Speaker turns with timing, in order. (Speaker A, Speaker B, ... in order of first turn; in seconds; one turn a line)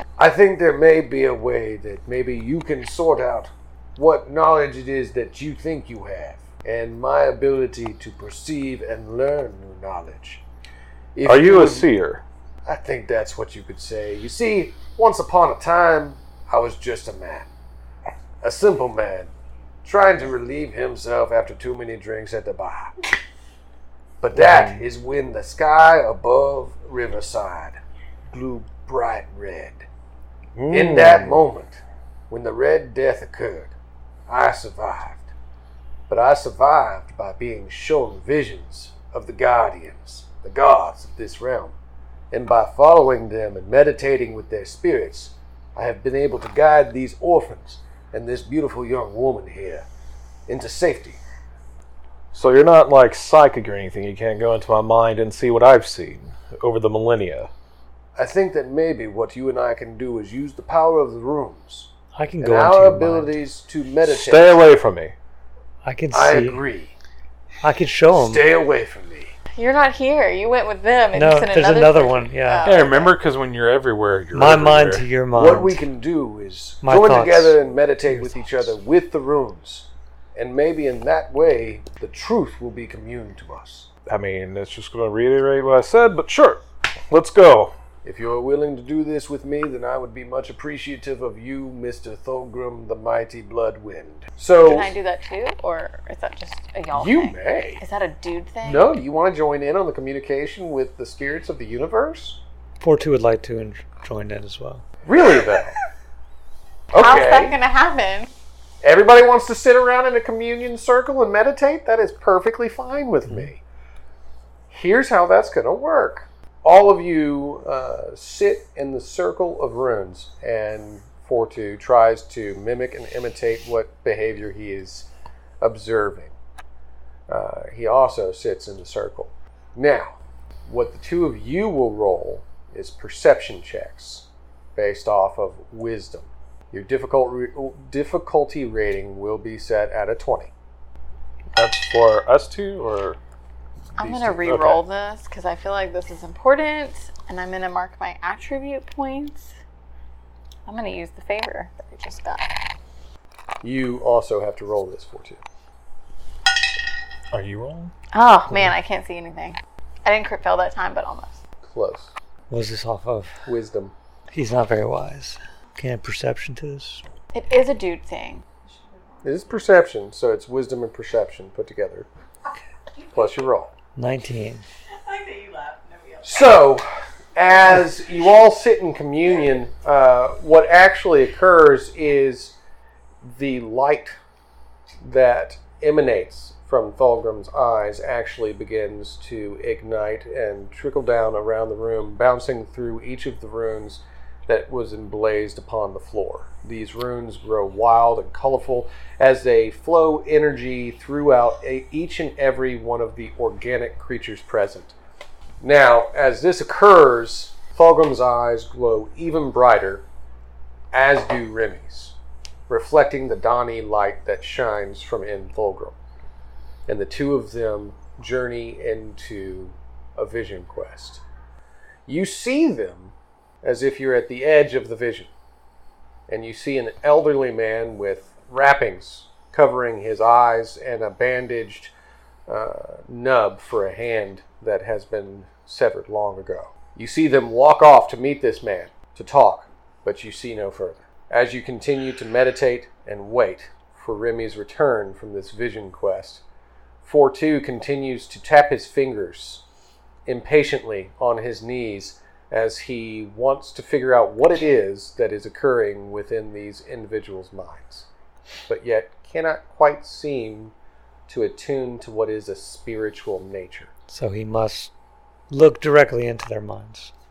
Speaker A: 0.2-10.4
Speaker A: 11.2-11.9
Speaker B: 11.2-12.2
Speaker A: 12.7-17.5
Speaker A: 18.4-19.3
Speaker A: 19.8-22.9
Speaker A: 24.2-27.8
Speaker B: 24.4-24.8
Speaker A: 28.3-29.9
Speaker B: 30.6-31.4
Speaker A: 30.7-33.7
Speaker A: 34.3-35.3
Speaker A: 36.1-41.8
Speaker A: 42.3-49.9
Speaker A: 50.5-51.2
Speaker B: 52.3-57.5
Speaker A: 58.2-61.9
Speaker C: 62.1-63.3
Speaker A: 62.4-64.6
Speaker B: 64.0-65.1
Speaker C: 65.8-66.6
Speaker A: 66.1-66.9
Speaker C: 67.6-68.5
Speaker A: 68.1-69.3
Speaker D: 69.5-73.2
Speaker C: 71.1-72.8
Speaker E: 72.6-75.0
Speaker C: 74.3-75.8
Speaker A: 75.3-83.9
Speaker C: 76.8-77.6
Speaker C: 78.1-78.4
Speaker B: 84.1-87.7
Speaker A: 88.0-94.9
Speaker D: 94.6-98.9
Speaker A: 96.9-97.8
Speaker A: 98.6-102.4
Speaker C: 102.8-104.8
Speaker A: 105.0-105.8
Speaker A: 106.9-107.6
Speaker D: 107.0-108.3
Speaker A: 108.8-113.6
Speaker A: 114.7-125.1
Speaker A: 125.6-126.3
Speaker A: 127.3-140.5
Speaker B: 141.5-143.2
Speaker A: 144.0-144.8
Speaker D: 144.0-149.5
Speaker D: 150.7-152.5
Speaker A: 153.6-155.4
Speaker E: 157.3-157.9
Speaker D: 158.1-161.4
Speaker A: 161.7-162.1
Speaker C: 162.5-163.4
Speaker A: 163.5-163.9
Speaker C: 164.3-167.0
Speaker D: 167.3-168.4
Speaker A: 169.2-172.1
Speaker A: 173.1-173.7
Speaker C: 173.9-174.7
Speaker D: 175.1-176.3
Speaker A: 176.2-182.6
Speaker A: 183.2-184.2
Speaker A: 185.0-204.9
Speaker A: 205.6-210.1
Speaker A: 210.9-212.2
Speaker A: 212.7-215.9
Speaker A: 216.9-221.2
Speaker A: 222.1-225.3
Speaker A: 226.3-231.9
Speaker A: 232.5-246.4
Speaker A: 247.0-249.6
Speaker A: 250.3-258.1
Speaker A: 258.7-260.7
Speaker A: 261.3-263.9
Speaker C: 264.1-264.9
Speaker C: 265.5-267.1